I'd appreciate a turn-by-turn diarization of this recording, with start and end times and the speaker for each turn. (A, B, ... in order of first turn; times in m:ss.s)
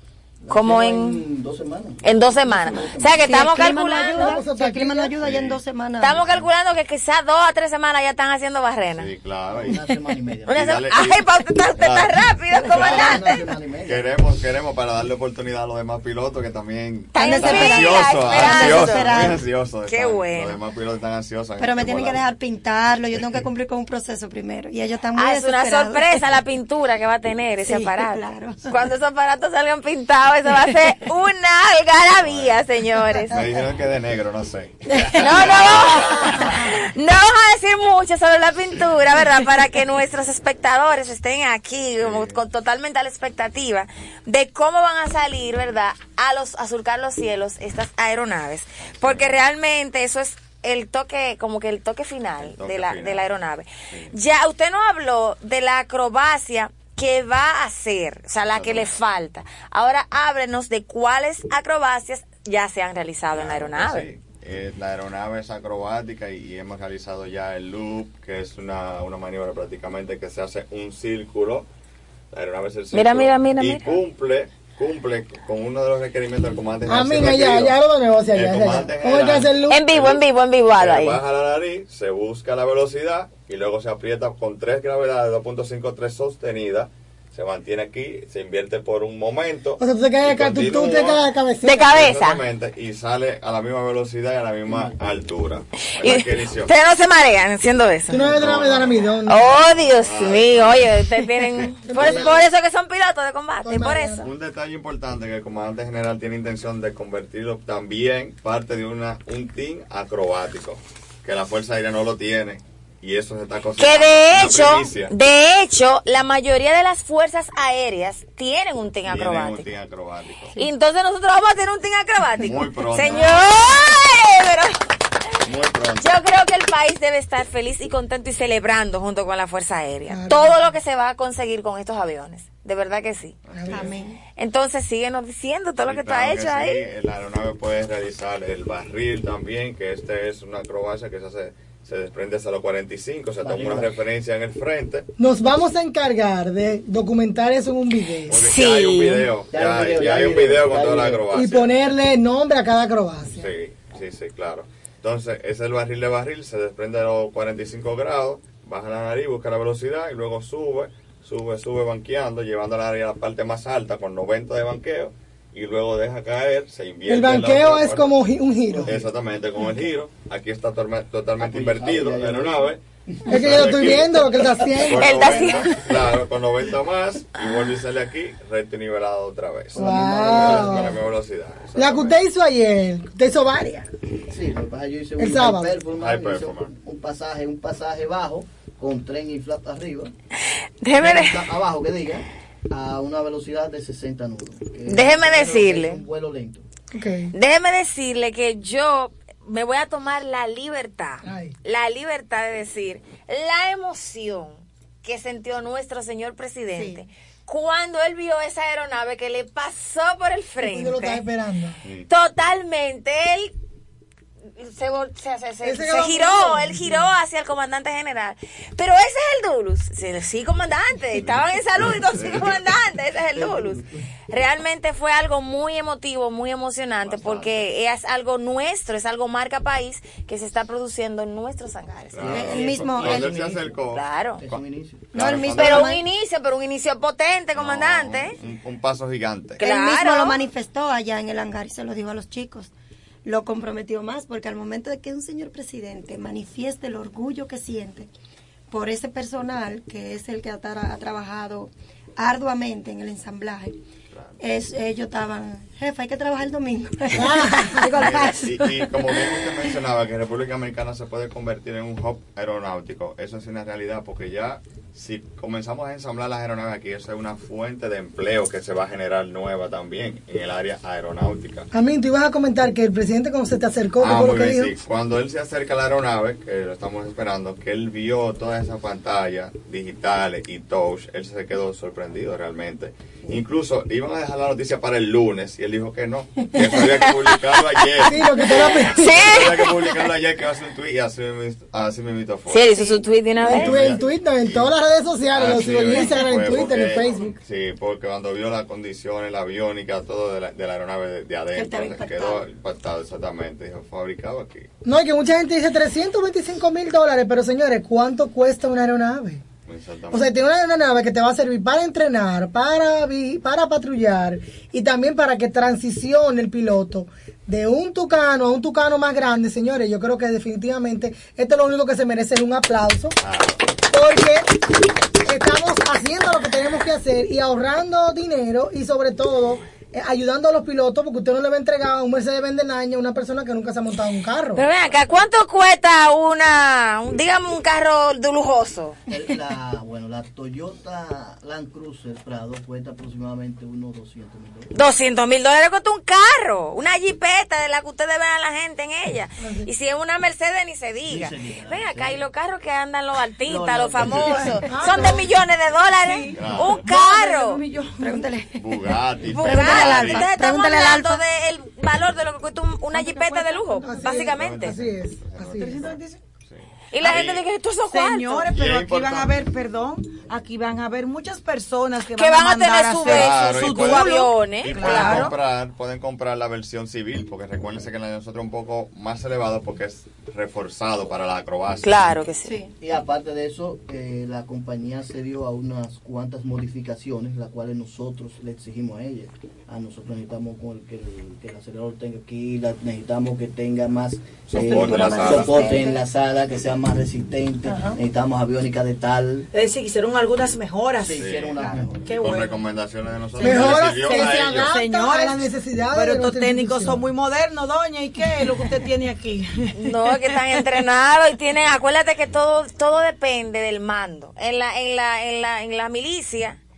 0:00.4-0:03.3 A
0:00.5-0:01.2 B
0:02.0-0:04.4 B
0:03.2-0:06.2 C
0:03.9-0:05.2 D
0:05.2-0:06.4 E
0:06.0-0:09.1 B
0:09.0-0:09.8 E
0:09.5-0:10.6 A
0:10.5-0:13.4 B
0:10.5-0:11.3 E
0:11.8-0:22.3 E
0:12.6-0:14.1 A
0:17.1-0:20.6 B
0:17.2-0:19.4 C
0:21.6-0:26.3 C
0:23.1-0:23.4 E
0:25.2-0:33.4 B
0:27.6-0:28.7 C
0:32.2-0:32.6 E
0:33.3-0:36.8 E
0:35.2-1:04.1 B
0:42.0-0:42.4 E
0:48.9-0:49.4 E
0:52.4-0:53.3 E
0:58.5-0:58.9 E
1:03.3-1:11.7 E
1:12.3-1:17.8 E
1:12.9-1:14.0 B
1:16.9-1:19.8 D
1:18.3-1:36.7 E
1:19.7-1:21.2 B
1:29.8-1:32.0 D
1:31.6-1:32.4 B
1:34.7-1:35.0 A
1:36.0-1:38.3 B
1:38.1-1:39.6 D
1:38.1-1:42.2 E
1:39.3-1:44.3 B
1:41.8-1:42.5 D
1:42.0-1:42.3 A
1:43.6-1:44.3 D
1:44.2-1:55.1 E
1:53.8-1:59.7 B
1:59.1-2:00.6 E
2:00.6-2:04.8 B
2:02.4-2:03.4 E
2:05.4-2:06.1 E
2:06.0-2:13.4 B
2:10.1-2:10.6 D
2:13.5-2:14.0 E
2:13.5-2:14.0 D
2:13.6-2:14.2 C
2:14.4-2:16.8 B
2:15.9-2:25.1 E
2:23.4-2:24.0 A
2:25.2-2:28.4 D
2:28.3-2:31.7 E
2:28.3-2:29.3 B
2:29.5-2:31.5 A
2:31.3-2:33.5 D
2:33.3-2:48.2 E
2:47.1-2:48.9 D
2:48.7-2:49.1 A
2:48.9-3:02.2 E
2:51.4-2:54.7 A
2:53.3-2:55.5 D
2:54.8-2:55.8 B
2:59.7-3:01.0 A
2:59.8-3:00.9 D
3:01.8-3:03.9 D
3:04.3-3:10.1 A
3:05.2-3:05.8 D
3:05.9-3:06.8 E
3:10.8-3:11.4 B
3:11.0-3:16.6 A
3:14.9-3:16.0 B
3:16.9-3:17.3 D
3:17.3-3:31.3 B
3:21.2-3:21.6 D
3:30.6-3:31.8 D
3:31.8-3:32.1 E
3:32.1-3:33.5 B
3:34.6-3:52.3 B
3:35.6-3:36.9 D
3:41.2-3:42.6 E
3:43.4-3:43.8 A
3:47.0-3:47.6 E
3:52.1-3:54.0 E
3:52.2-3:53.8 A
3:52.2-3:53.4 C
3:53.9-3:54.5 B
3:54.4-3:55.1 A
3:55.1-3:56.0 E
3:55.1-3:56.0 C
3:55.5-3:58.4 B
3:57.6-3:59.6 E
3:59.6-4:00.4 B
3:59.6-4:02.7 C
4:03.2-4:08.1 C
4:08.7-4:13.8 C
4:14.1-4:14.4 E
4:14.4-4:19.3 C
4:17.1-4:18.0 D
4:17.8-4:31.7 E
4:31.7-4:34.7 D
4:34.0-4:53.0 E
4:48.0-4:49.4 D
4:48.8-4:49.7 B
4:52.5-4:53.9 B
4:53.4-4:57.4 D
4:53.5-4:54.8 E
4:55.3-5:04.7 E
5:01.5-5:02.5 C
5:04.8-5:09.4 D
5:09.7-5:10.4 E
5:10.1-5:23.2 D
5:23.2-5:23.7 E
5:23.9-5:24.5 D
5:25.2-5:34.7 D
5:34.5-5:39.0 B
5:39.1-5:44.7 A
5:44.7-5:57.6 B
5:49.4-5:49.7 D
5:51.0-5:52.2 A
5:53.4-5:54.7 A
5:54.0-5:54.3 E
5:54.7-5:55.2 D
5:56.0-5:58.2 F
5:56.3-5:56.8 E
5:58.0-6:01.2 C
5:58.6-6:00.3 E
5:59.4-6:04.8 B
6:02.9-6:03.8 F
6:03.8-6:05.9 D
6:04.1-6:07.4 E
6:05.5-6:06.2 F
6:06.9-6:08.5 B
6:07.9-6:15.3 F
6:08.5-6:09.4 E
6:12.2-6:15.3 B
6:13.1-6:22.2 E
6:21.8-6:22.6 B
6:22.8-6:39.5 A
6:34.5-6:35.8 E
6:34.7-6:36.0 F
6:34.8-6:35.8 C
6:37.6-6:38.0 F
6:39.5-6:42.5 F
6:41.0-6:42.4 A
6:41.2-6:44.7 E
6:43.4-6:47.1 D
6:43.4-6:50.2 F
6:43.5-6:43.9 A
6:49.7-6:56.6 B